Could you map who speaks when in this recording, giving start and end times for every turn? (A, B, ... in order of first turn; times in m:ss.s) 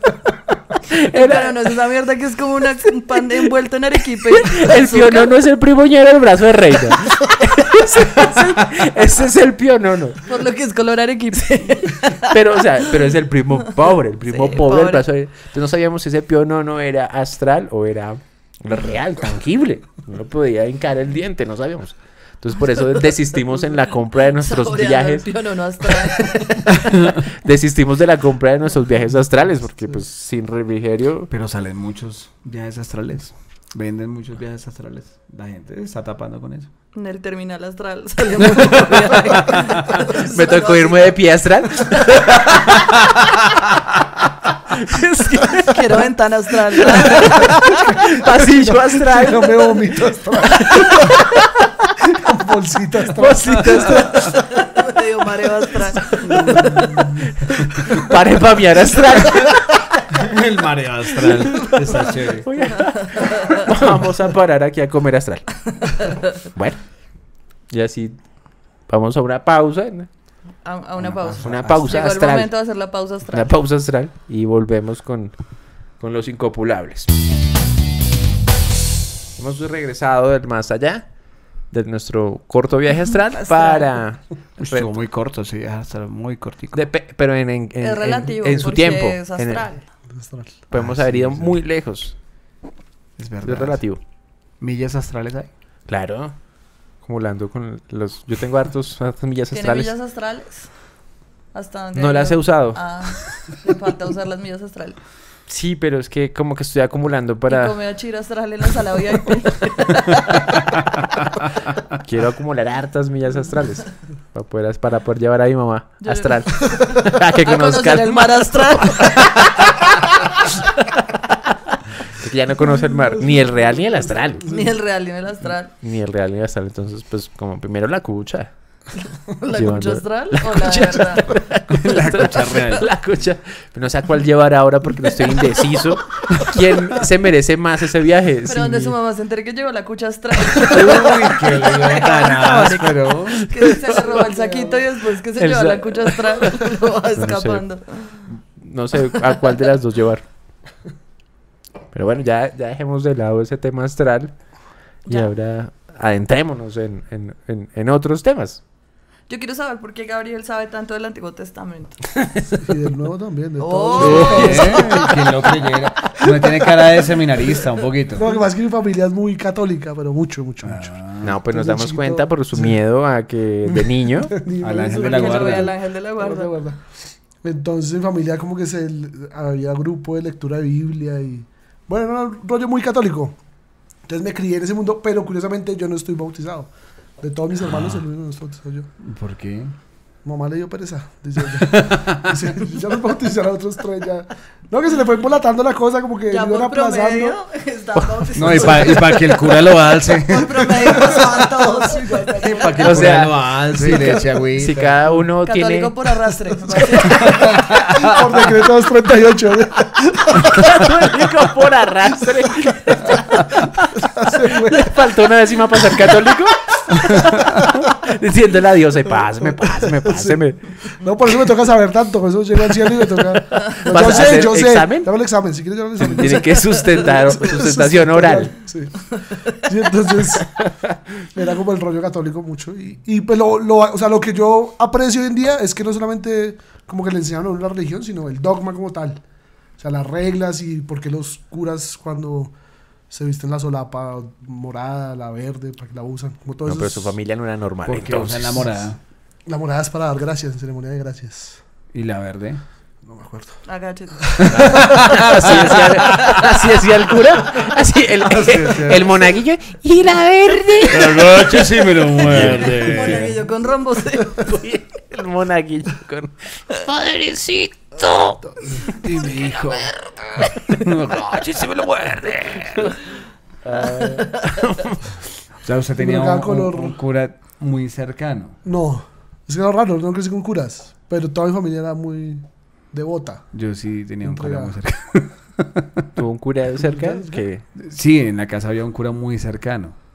0:01.1-0:05.3 A
0:01.1-0:01.5 B
0:04.4-0:10.2 B
0:10.3-0:12.3 A
0:12.3-0:25.4 B
0:14.2-0:15.0 A
0:24.4-0:26.7 A
0:27.4-0:31.3 B
0:31.3-0:36.7 C
0:37.0-0:41.1 A
0:40.3-0:43.3 B
0:44.7-0:46.0 B
0:45.7-0:47.8 A
0:46.9-0:49.8 B
0:48.4-0:51.2 D
0:52.1-0:54.4 D
0:53.2-0:54.4 B
0:54.6-0:56.6 A
0:56.3-0:56.9 D
0:56.5-0:59.7 B
1:00.3-1:02.8 C
1:01.2-1:05.8 B
1:03.2-1:03.5 A
1:06.5-1:10.1 B
1:10.6-1:13.5 A
1:11.0-1:12.0 C
1:11.4-1:17.1 B
1:19.4-1:24.9 B
1:23.4-1:23.9 A
1:24.6-1:26.8 C
1:26.7-1:29.7 B
1:27.8-1:29.8 A
1:30.0-1:30.6 D
1:30.7-1:31.6 C
1:30.7-1:32.2 B
1:33.2-1:33.9 C
1:33.4-1:34.0 B
1:34.5-1:35.5 C
1:35.9-1:39.9 B
1:39.5-1:45.0 A
1:42.0-1:43.2 B
1:45.5-1:47.8 B
1:47.5-1:50.5 A
1:52.0-1:59.9 B
1:56.0-1:59.3 A
2:02.2-2:04.4 B
2:03.2-2:03.6 D
2:04.2-2:04.7 D
2:04.5-2:05.7 A
2:05.8-2:08.9 B
2:09.4-2:11.2 A
2:09.5-2:19.0 B
2:11.8-2:12.9 C
2:18.5-2:28.3 A
2:20.6-2:23.5 C
2:24.0-2:24.8 D
2:25.4-2:26.6 B
2:27.2-2:30.3 B
2:31.9-2:38.6 B
2:35.1-2:35.3 A
2:39.3-2:42.0 A
2:42.6-2:44.9 D
2:43.6-2:45.2 A
2:44.0-2:48.2 C
2:44.0-2:44.7 B
2:48.2-2:52.8 D
2:50.6-2:51.4 C
2:51.2-2:54.3 B
2:54.3-3:03.4 D
2:54.6-2:55.7 C
2:54.8-2:56.6 A
3:04.0-3:08.9 D
3:07.6-3:08.0 C
3:09.0-3:09.8 C
3:10.2-3:17.4 D
3:11.6-3:12.3 C
3:16.3-3:19.6 A
3:18.0-3:18.8 B
3:18.4-3:20.8 C
3:20.3-3:22.8 A
3:20.6-3:22.8 D
3:22.4-3:25.0 C
3:22.8-3:23.6 B
3:23.7-3:24.3 D
3:24.6-3:25.9 B
3:25.4-3:27.4 A
3:27.2-3:28.2 C
3:27.9-3:30.7 D
3:30.5-3:33.9 B
3:34.0-3:35.0 D
3:34.6-3:41.0 B
3:40.0-3:50.8 D
3:43.3-3:45.1 B
3:46.0-3:48.6 B
3:51.3-3:59.2 D
3:59.8-4:02.5 D
4:03.1-4:07.1 D
4:06.6-4:08.7 B
4:07.8-4:09.0 C
4:09.4-4:11.6 D
4:11.9-4:12.6 C
4:13.0-4:13.6 D
4:13.6-4:14.5 A
4:14.5-4:16.4 C
4:14.5-4:23.3 B
4:18.2-4:19.2 C
4:20.9-4:23.3 C
4:22.6-4:24.5 A
4:24.5-4:29.0 B
4:28.4-4:28.8 D
4:29.0-4:30.0 C
4:30.8-4:32.9 C
4:32.2-4:35.2 B
4:35.6-4:38.6 C
4:36.0-4:37.0 D
4:38.6-4:43.5 D
4:43.5-4:45.8 C
4:44.2-4:44.8 D
4:46.2-4:47.6 B
4:46.9-4:47.4 D
4:47.8-4:50.0 C